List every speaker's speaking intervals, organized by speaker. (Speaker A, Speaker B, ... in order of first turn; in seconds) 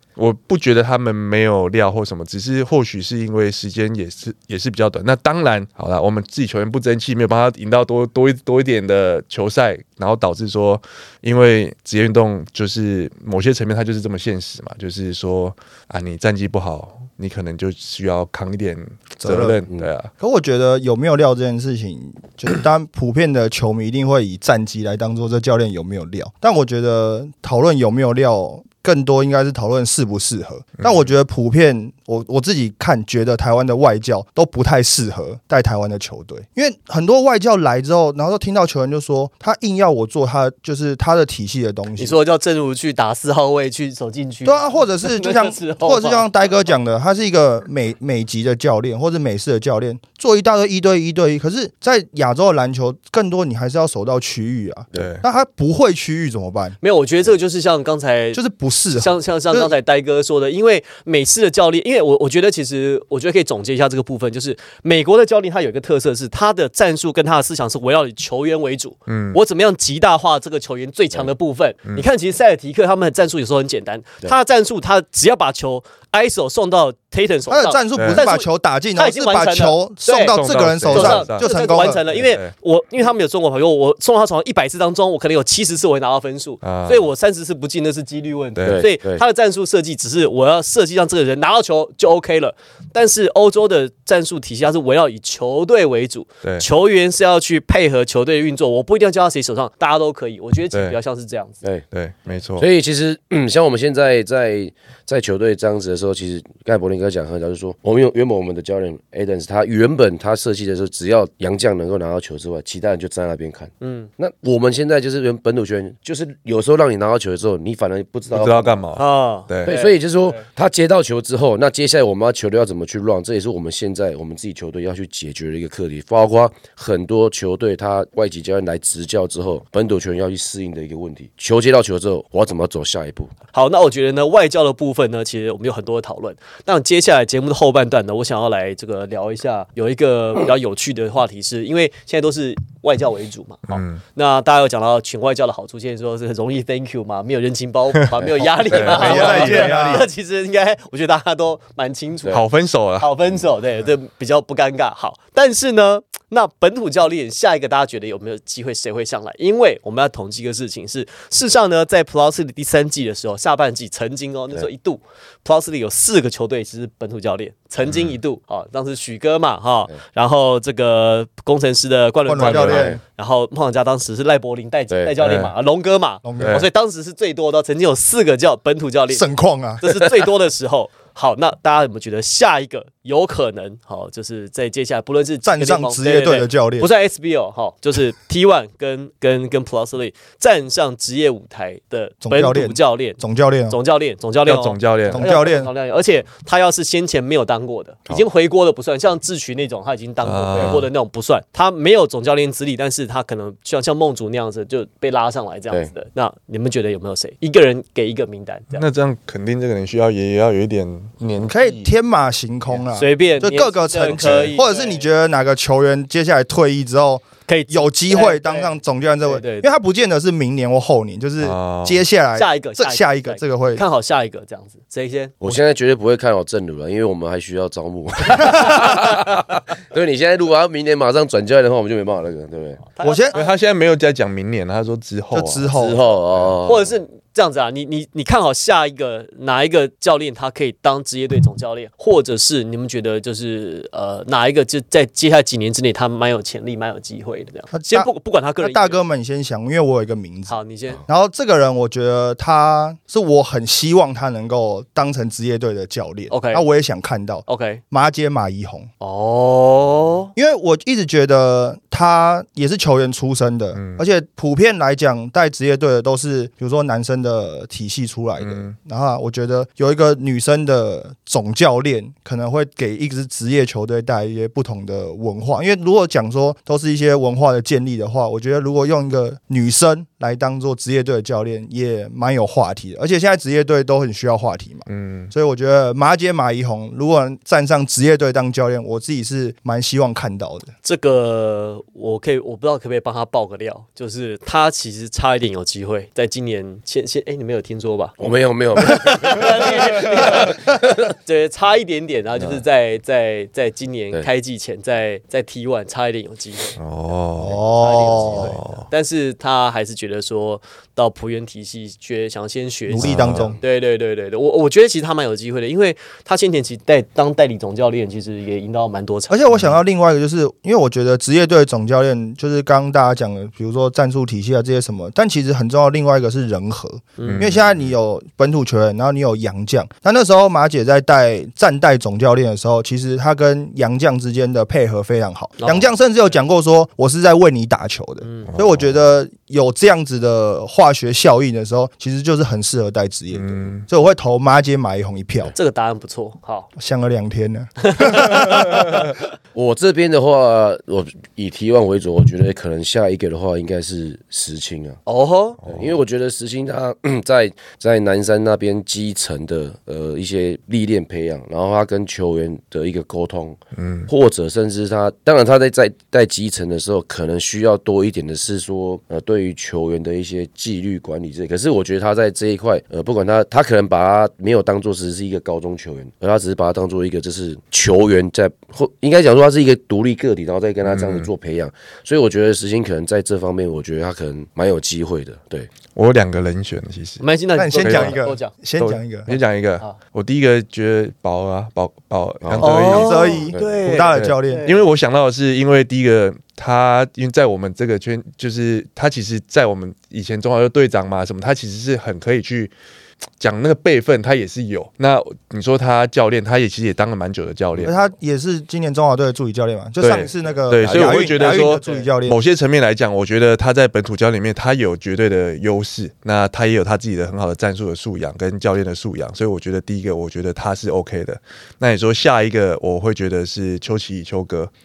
Speaker A: 0.2-20.1, 55.0-55.2, 69.1-69.4, 78.0-78.2, 80.3-82.5, 86.6-87.1, 88.6-88.9, 101.9-102.7, 118.3-119.8, 143.7-144.0, 148.7-150.0, 152.3-153.2, 167.8-168.2, 172.4-172.9, 175.2-175.5, 176.4-176.7, 194.4-195.2, 200.2-200.8, 208.8-211.9, 214.0-214.5, 221.4-222.1, 233.3-235.8, 263.8-264.1, 268.4-268.8, 284.9-285.3, 306.8-307.6, 308.3-308.9, 313.0-313.6, 327.3-327.9, 338.5-339.0, 343.3-343.9, 355.6-356.0, 363.8-364.1, 380.9-381.3, 385.9-387.2, 387.8-388.2, 388.8-393.5, 394.1-402.7, 403.4-407.9, 410.0-424.7
Speaker B: 19.2-19.6, 20.2-42.2, 44.5-56.8, 58.3-59.7, 77.5-82.0, 148.8-150.1, 172.3-173.0, 176.2-176.6, 179.1-179.8, 185.4-186.9, 192.2-193.8, 195.1-195.7, 211.5-223.8, 233.0-233.3, 235.3-236.0, 247.7-250.6, 251.1-258.9, 260.4-290.7, 307.4-308.6, 312.9-313.6, 319.3-345.5, 346.8-349.1, 387.6-389.3, 392.9-394.7, 407.8-412.4
Speaker C: 42.0-46.3, 56.8-58.4, 59.0-101.6, 113.8-114.1, 119.0-120.4, 133.5-152.4, 153.0-179.3, 179.8-208.8, 212.9-215.1, 217.5-219.7, 222.4-225.3, 232.9-233.5, 236.7-249.0, 250.5-251.0, 256.3-256.6, 257.5-257.8, 259.0-260.3, 290.8-298.2, 298.8-306.8, 307.7-319.4, 327.2-327.5, 335.6-335.9, 338.2-338.5, 345.5-346.7, 347.9-349.1, 355.1-355.6, 387.2-388.5, 389.3-390.0, 392.6-394.9, 410.5-412.1
Speaker D: 88.7-89.2, 102.6-118.8, 119.7-133.3, 172.7-173.0, 174.9-175.2, 225.4-232.9, 235.7-236.9, 298.2-300.8, 302.4-302.6, 349.5-355.0, 355.7-385.7, 392.4-393.8